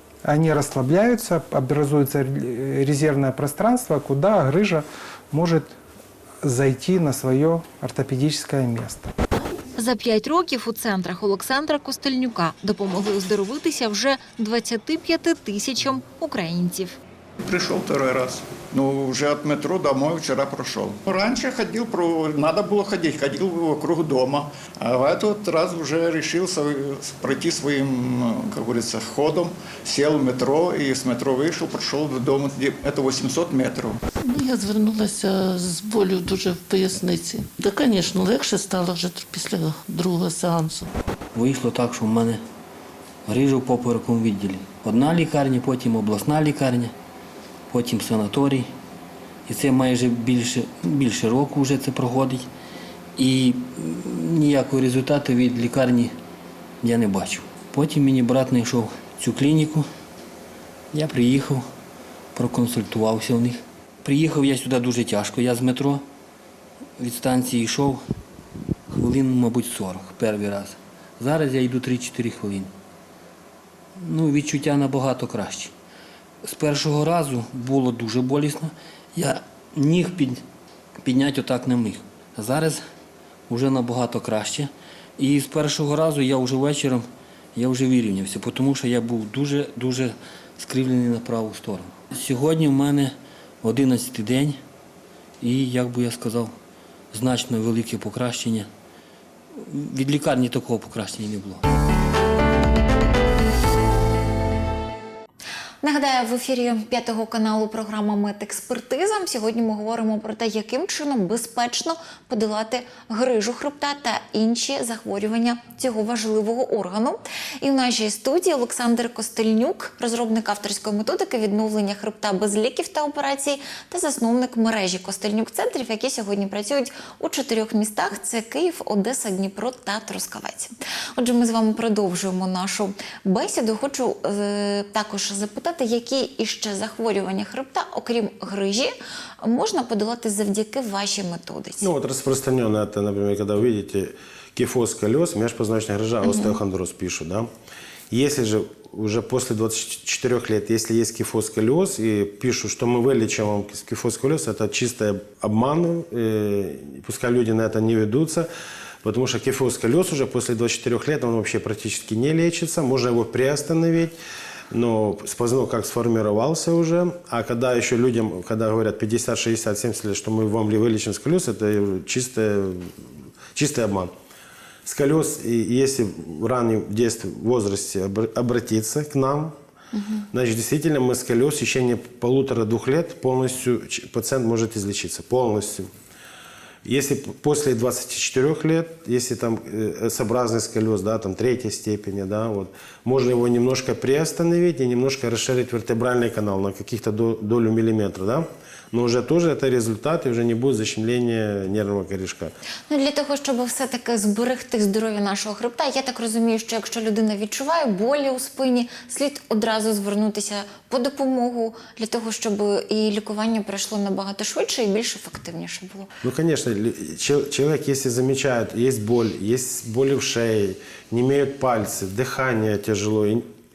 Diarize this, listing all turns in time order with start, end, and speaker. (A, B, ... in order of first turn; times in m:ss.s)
0:00.2-0:05.8 A
0:06.4-0:09.1 A
0:09.8-0:17.0 B
0:17.5-0:34.0 C
0:34.2-0:40.9 D
0:41.4-0:42.4 E
0:43.3-0:46.9 E
0:47.7-0:48.7 E
0:49.5-0:52.5 E
0:53.2-0:56.1 E
0:56.8-0:59.9 E
1:00.9-1:01.6 E
1:02.4-1:06.0 E
1:07.0-1:08.0 E
1:08.9-1:12.7 E
1:14.0-1:15.7 E
1:16.4-1:20.4 E
1:21.0-1:22.8 E
1:23.5-1:34.6 E
1:35.4-1:36.5 E
1:37.1-1:38.7 E
1:39.7-1:41.6 E
1:45.8-2:21.9 B
2:21.8-2:27.5 F
2:26.2-2:26.6 B
2:28.1-2:38.5 F
2:39.0-2:44.2 F
2:44.7-2:52.9 F
2:53.5-2:54.1 F
2:54.8-2:59.6 F
2:59.9-3:00.2 B
3:00.3-3:05.9 F
3:06.8-3:22.5 F
3:22.9-3:36.1 B
3:36.2-3:43.4 F